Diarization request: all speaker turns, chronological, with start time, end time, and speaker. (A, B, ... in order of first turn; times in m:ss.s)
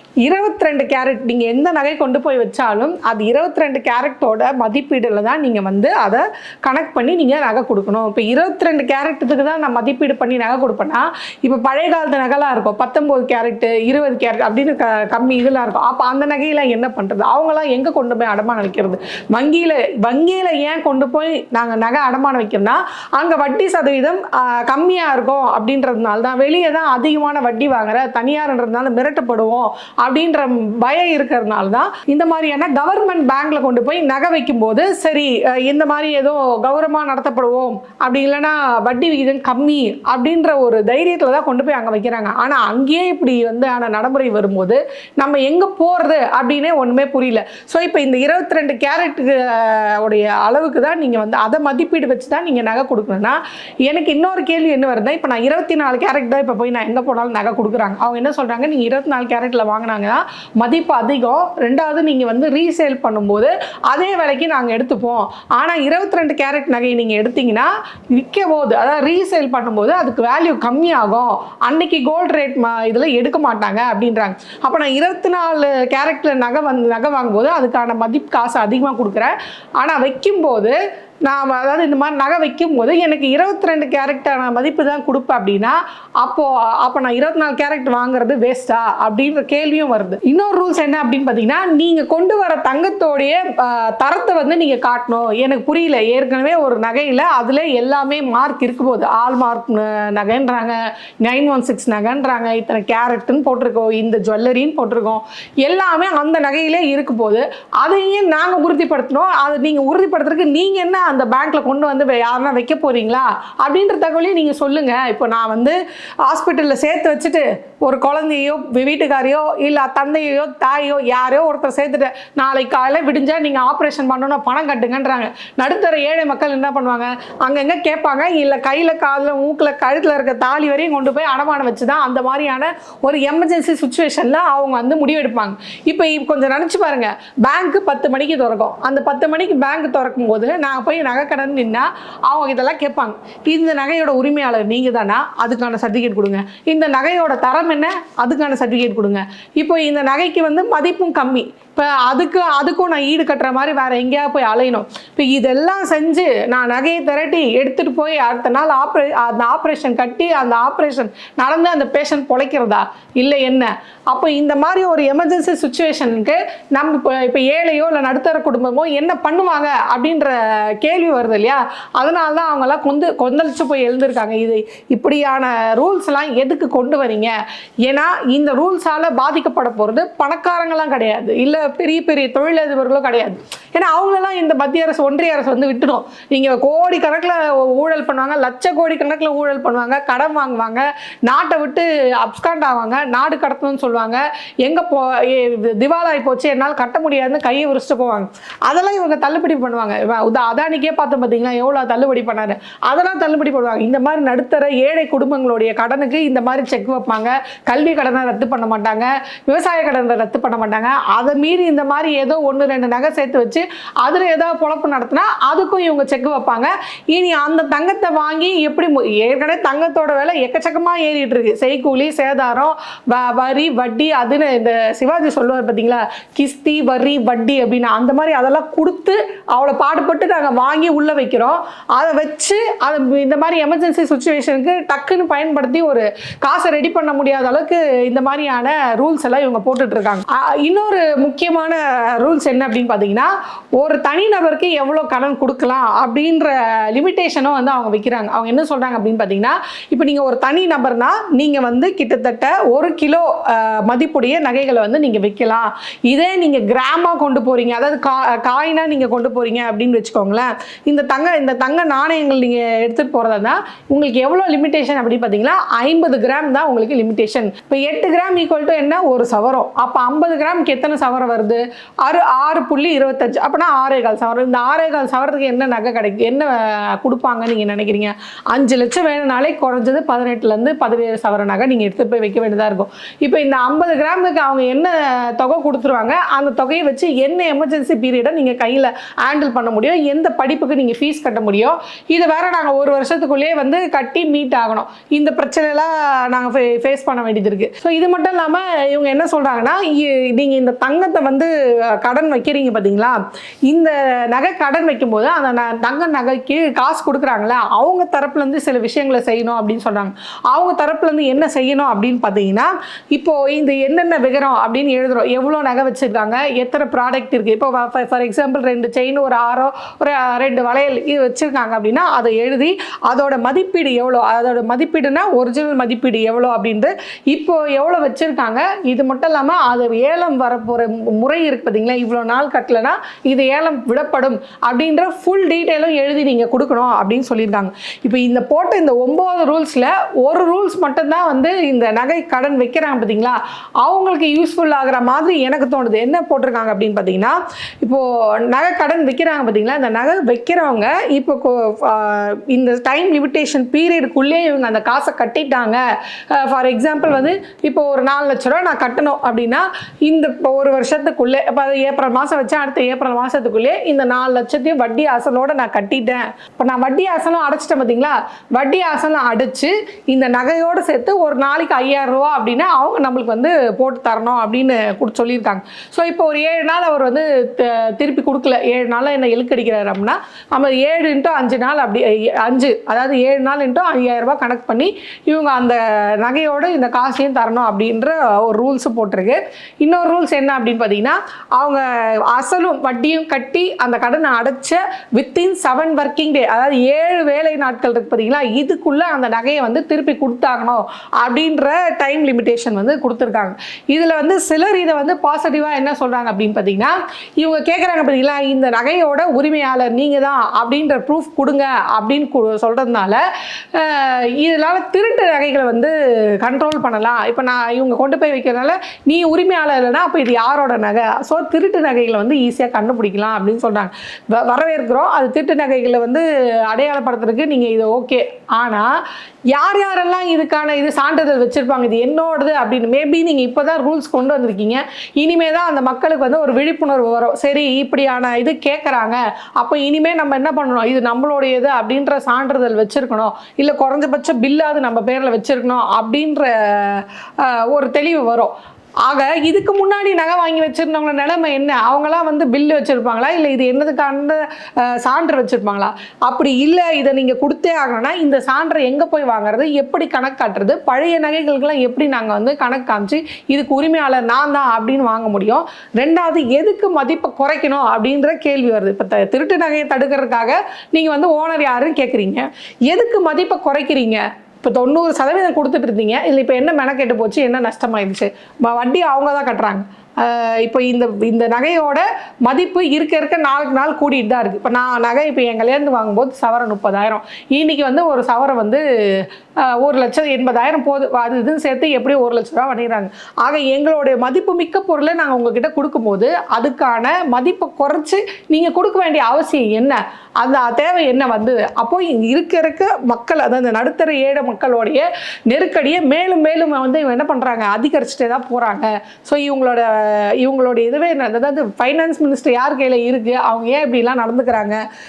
0:00.2-2:57.3 A
2:57.9-6:53.2 A
6:53.7-7:08.9 A
7:09.5-7:28.5 A
7:29.1-8:34.8 A